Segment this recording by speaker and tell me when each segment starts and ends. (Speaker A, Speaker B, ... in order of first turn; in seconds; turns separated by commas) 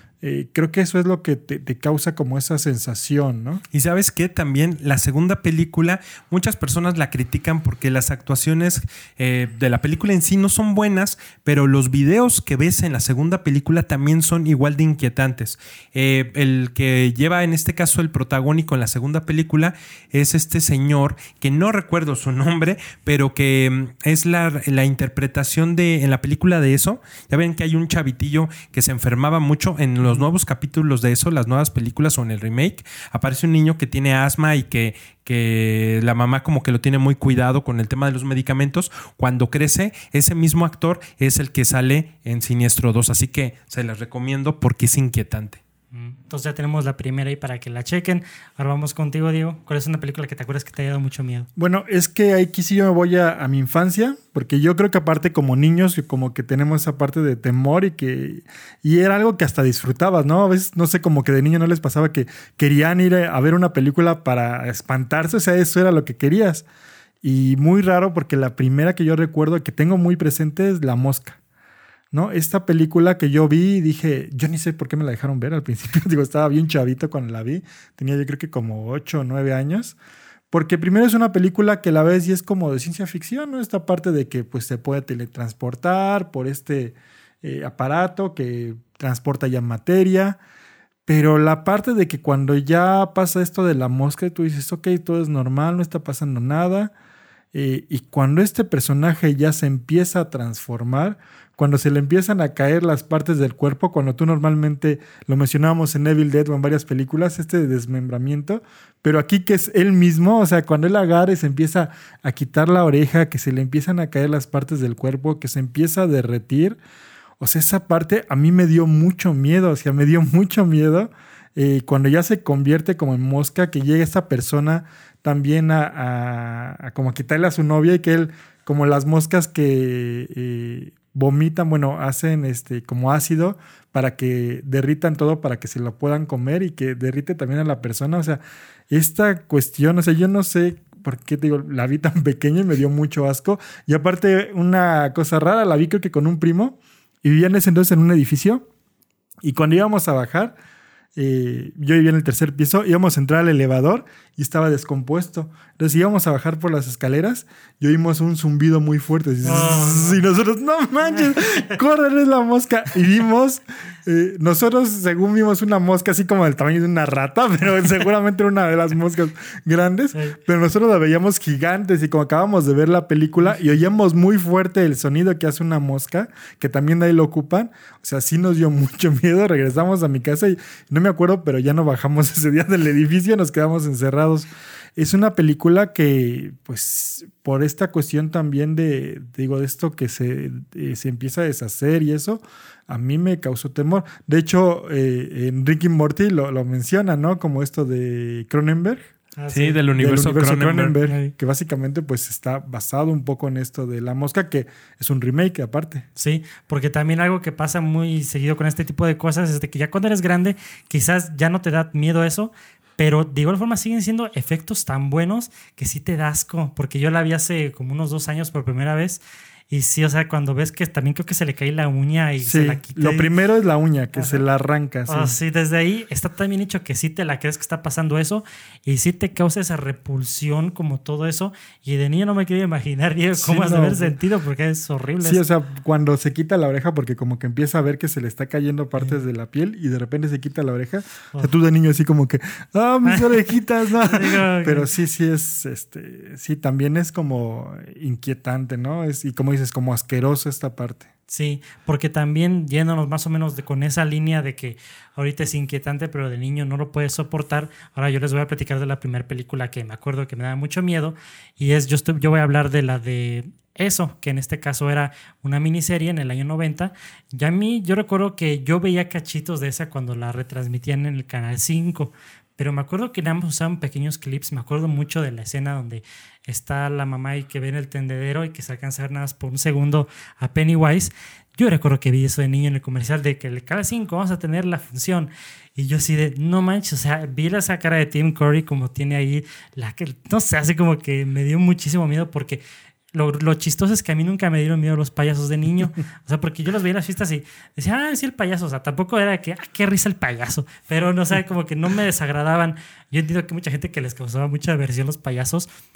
Speaker A: 0.2-3.6, Speaker B: 3.7-45.6, Speaker C: 45.9-51.5, Speaker A: 51.6-66.7, Speaker A: 67.2-71.4, Speaker A: 72.1-80.0, Speaker A: 80.5-90.4, Speaker A: 91.1-96.9, Speaker A: 97.5-116.8, Speaker A: 117.4-148.7, Speaker A: 149.4-150.5, Speaker A: 151.2-199.1, Speaker C: 159.4-160.2, Speaker C: 199.4-199.8, Speaker B: 199.5-201.0, Speaker A: 200.0-206.1, Speaker C: 201.1-201.3, Speaker C: 206.2-223.3, Speaker A: 222.4-225.4, Speaker C: 224.2-224.4, Speaker C: 225.1-235.4, Speaker A: 233.4-234.2, Speaker A: 235.2-251.1, Speaker C: 243.1-243.4, Speaker C: 244.0-244.9, Speaker C: 251.3-292.6, Speaker C: 293.1-305.7